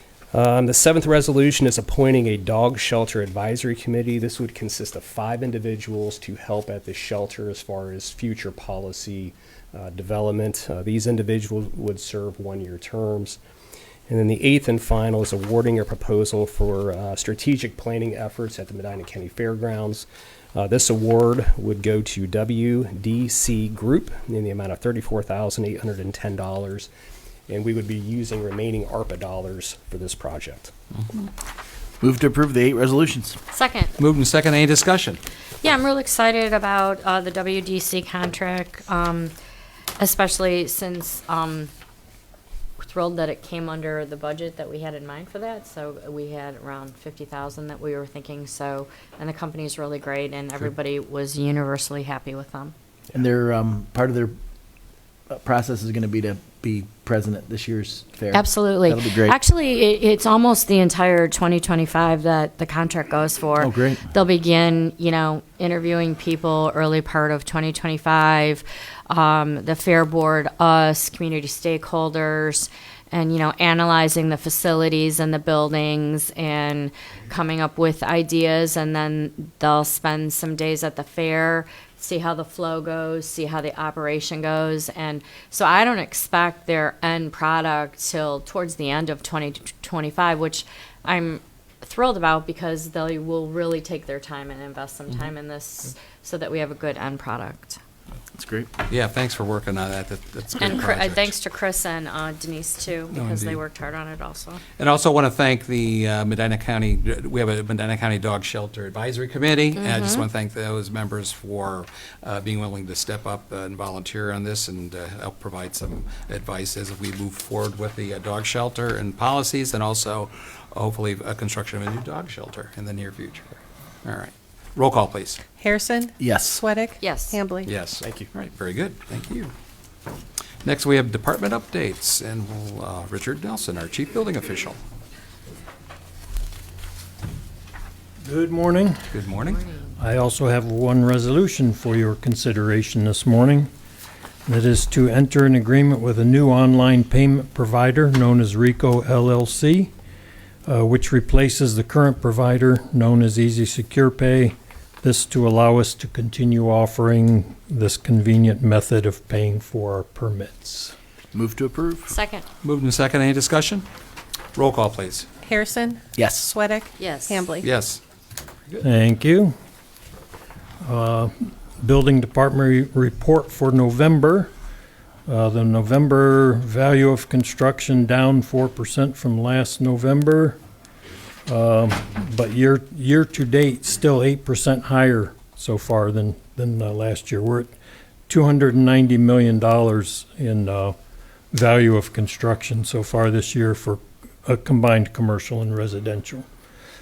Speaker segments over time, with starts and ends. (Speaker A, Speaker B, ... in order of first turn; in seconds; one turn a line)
Speaker A: 0.3-13.4
Speaker A: 14.1-26.9
Speaker A: 27.5-30.7
Speaker B: 32.0-33.4
Speaker C: 33.5-34.0
Speaker D: 34.0-35.2
Speaker C: 35.6-39.3
Speaker C: 40.0-41.7
Speaker C: 42.8-52.7
Speaker B: 53.1-54.3
Speaker B: 55.3-59.4
Speaker C: 58.3-97.8
Speaker B: 63.6-64.1
Speaker B: 98.3-98.7
Speaker D: 98.9-101.3
Speaker C: 100.6-104.6
Speaker D: 103.1-103.6
Speaker D: 104.8-125.5
Speaker C: 109.8-110.2
Speaker E: 125.6-127.7
Speaker B: 126.2-126.6
Speaker C: 127.0-127.5
Speaker D: 127.6-129.5
Speaker A: 128.0-128.3
Speaker D: 130.6-134.8
Speaker F: 138.2-139.1
Speaker D: 139.1-139.6
Speaker F: 140.0-143.7
Speaker F: 144.4-149.9
Speaker F: 150.7-160.9
Speaker B: 161.3-162.1
Speaker C: 162.1-162.4
Speaker D: 162.6-163.9
Speaker D: 164.5-165.3
Speaker E: 165.4-166.0
Speaker B: 166.1-166.5
Speaker E: 166.5-167.7
Speaker C: 167.0-167.6
Speaker D: 167.6-168.0
Speaker F: 168.8-169.5
Speaker F: 170.8-174.5
Speaker F: 175.3-180.6
Speaker F: 181.5-187.7
Speaker F: 188.3-190.9
Speaker F: 191.5-196.4